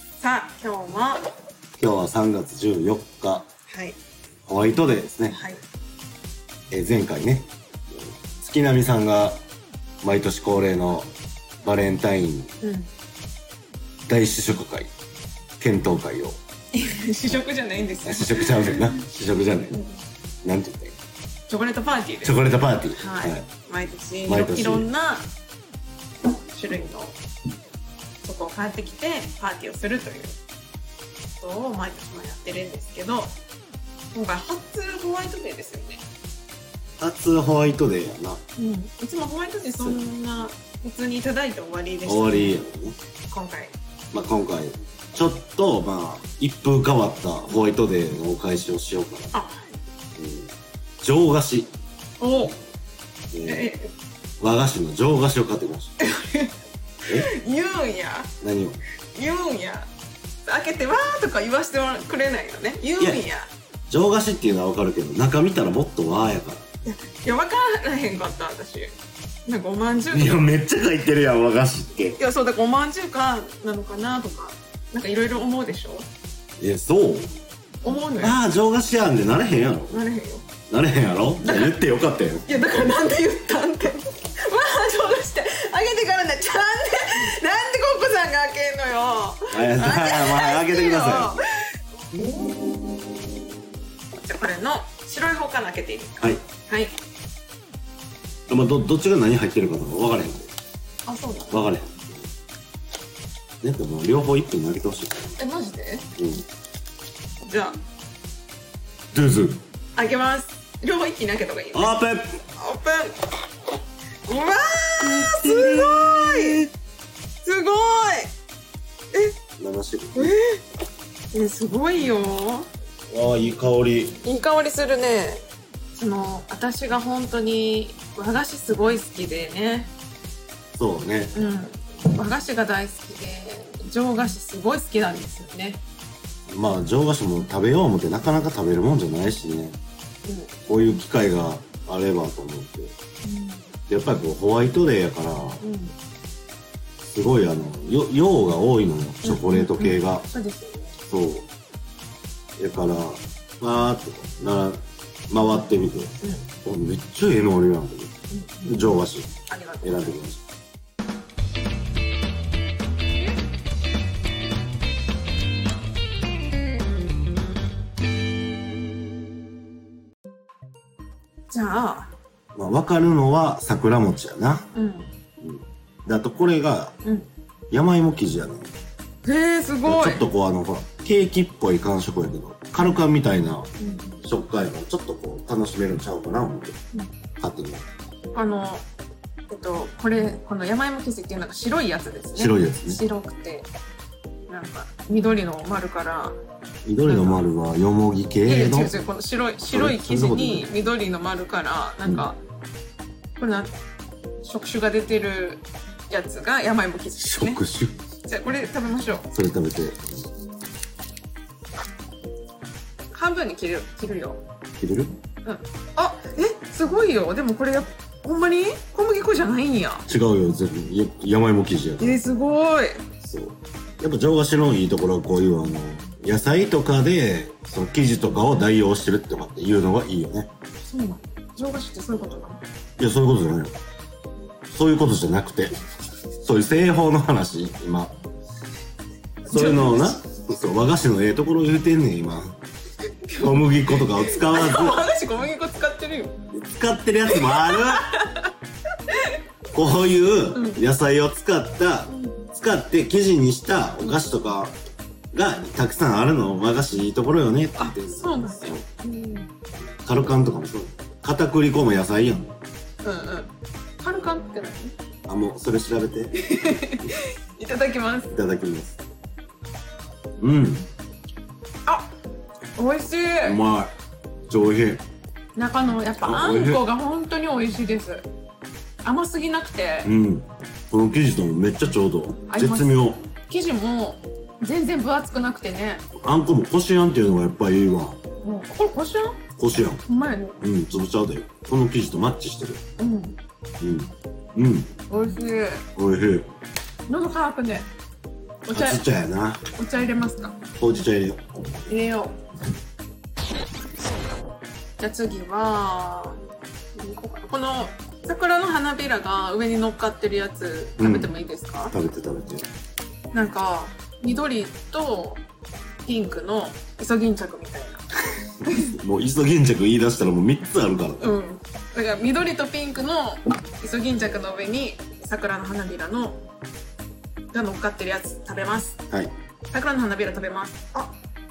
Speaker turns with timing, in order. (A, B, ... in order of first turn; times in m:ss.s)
0:00.2-0:01.2 A
0:01.8-0:03.5 B
0:03.7-0:04.0 A
0:04.5-0:05.4 B
0:05.3-0:05.6 A
0:06.7-0:09.4 B
0:10.0-0:11.1 B
0:11.6-0:12.5 B
0:12.6-0:12.9 A
0:14.1-0:14.9 B
0:15.6-0:16.4 B
0:16.7-0:19.0 A
0:18.0-0:19.8 B
0:20.4-0:20.9 B
0:21.5-0:22.4 A
0:22.2-0:23.4 B
0:23.0-0:25.2 A
0:24.2-0:24.9 B
0:26.4-0:27.2 A
0:28.2-0:30.4 A
0:31.4-0:33.3 A
0:34.1-0:36.0 A
0:37.0-0:38.4 B
0:38.6-0:42.6 A
0:42.0-0:43.0 B
0:43.3-0:43.7 A
0:44.1-0:49.3 B
0:49.3-0:49.6 A
0:50.2-0:51.7 B
0:52.2-0:52.6 A
0:53.3-0:53.7 B
0:53.4-0:53.9 A
0:54.4-0:55.9 B
0:56.0-0:56.5 A
0:57.1-0:58.3 A
0:58.4-0:58.8 B
0:59.1-0:59.9 A
1:00.4-1:03.5 A
1:03.9-1:06.6 B
1:06.8-1:08.9 A
1:09.4-1:10.4 A
1:10.1-1:12.2 B
1:12.2-1:16.1 A
1:16.6-1:17.3 B
1:17.8-1:18.4 A
1:18.2-1:20.0 B
1:19.9-1:20.4 A
1:20.7-1:22.6 B
1:21.4-1:21.8 A
1:22.4-1:32.3 A
1:29.5-1:31.4 B
1:34.1-1:37.0 A
1:38.5-1:40.5 B
1:41.0-1:41.7 A
1:41.5-1:42.1 B
1:43.6-1:45.4 B
1:45.4-1:46.1 A
1:46.2-1:46.4 B
1:47.4-1:47.8 A
1:49.1-1:49.6 B
1:50.0-1:52.0 A
1:51.7-1:52.4 B
1:52.5-1:53.3 A
1:54.2-1:56.6 A
1:55.0-1:56.7 B
1:57.4-1:58.3 A
1:59.6-2:00.3 B
2:00.1-2:00.6 A
2:01.3-2:02.7 A
2:03.1-2:04.2 B
2:04.2-2:05.4 A
2:05.9-2:09.9 A
2:10.8-2:11.4 B
2:11.3-2:15.8 A
2:16.5-2:19.8 B
2:20.2-2:20.5 A
2:20.7-2:22.9 B
2:23.2-2:23.7 A
2:23.9-2:25.6 B
2:25.6-2:25.9 A
2:27.0-2:30.3 B
2:29.2-2:31.0 A
2:31.1-2:31.5 B
2:32.6-2:40.4 B
2:38.3-2:38.9 A
2:39.5-2:40.1 A
2:51.5-2:52.1 A
2:52.5-2:54.7 B
2:54.7-2:55.1 A
2:55.4-2:56.9 B
2:57.7-2:58.7 B
2:59.2-3:00.2 A
2:59.8-3:03.7 B
3:03.8-3:04.2 A
3:04.2-3:06.8 B
3:07.4-3:07.8 B
3:08.3-3:08.8 A
3:09.5-3:13.7 A
3:12.4-3:13.0 B
3:14.5-3:16.4 A
3:16.8-3:19.0 B
3:17.0-3:17.4 A
3:18.4-3:22.4 A
3:19.6-3:20.7 B
3:23.4-3:23.7 A
3:24.4-3:27.6 A
3:27.2-3:27.9 B
3:28.2-3:29.3 A
3:29.3-3:30.2 B
3:33.1-3:34.4 A
3:34.8-3:35.1 B
3:35.4-3:40.0 A
3:40.1-3:42.2 B
3:42.0-3:43.1 A
3:43.2-3:50.5 B
3:50.8-3:52.6 A
3:53.0-3:53.7 B
3:54.7-3:55.8 B
3:56.4-3:58.1 B
3:59.4-4:00.2 A
3:59.5-4:02.6 B
4:03.1-4:06.4 A
4:03.4-4:05.0 B
4:06.5-4:08.1 B
4:07.3-4:08.5 A
4:09.1-4:09.4 A
4:09.7-4:14.8 B
4:10.5-4:10.8 A
4:12.1-4:12.4 A
4:15.3-4:18.8 B
4:17.8-4:19.5 A
4:20.0-4:22.5 B
4:23.0-4:24.9 A
4:25.3-4:26.4 B
4:26.3-4:28.3 A
4:28.3-4:29.0 B
4:30.4-4:30.9 B
4:32.8-4:33.6 A
4:33.4-4:33.9 B
4:34.5-4:35.0 B
4:35.6-4:38.2 A
4:36.2-4:36.8 B
4:39.0-4:40.1 A
4:40.0-4:43.2 B
4:42.5-4:46.0 A
4:46.2-4:48.2 B
4:48.4-4:49.4 A
4:49.6-4:50.0 B
4:50.0-4:50.6 A
4:50.6-4:52.8 B
4:53.0-4:53.4 A
4:53.8-4:54.9 B
4:55.1-4:55.8 A
4:56.0-4:56.5 B
4:57.1-4:57.9 A
4:58.6-4:59.0 A
4:58.7-4:59.6 B
4:59.7-5:00.6 A
5:00.8-5:01.6 B
5:01.9-5:02.4 A
5:05.0-5:06.4 A
5:06.9-5:11.9 A
5:11.0-5:11.3 B
5:11.9-5:12.6 B
5:13.3-5:15.4 A
5:16.0-5:18.0 A
5:18.6-5:18.9 A
5:18.7-5:21.3 B
5:21.2-5:26.4 A
5:27.5-5:29.0 A
5:29.7-5:31.1 A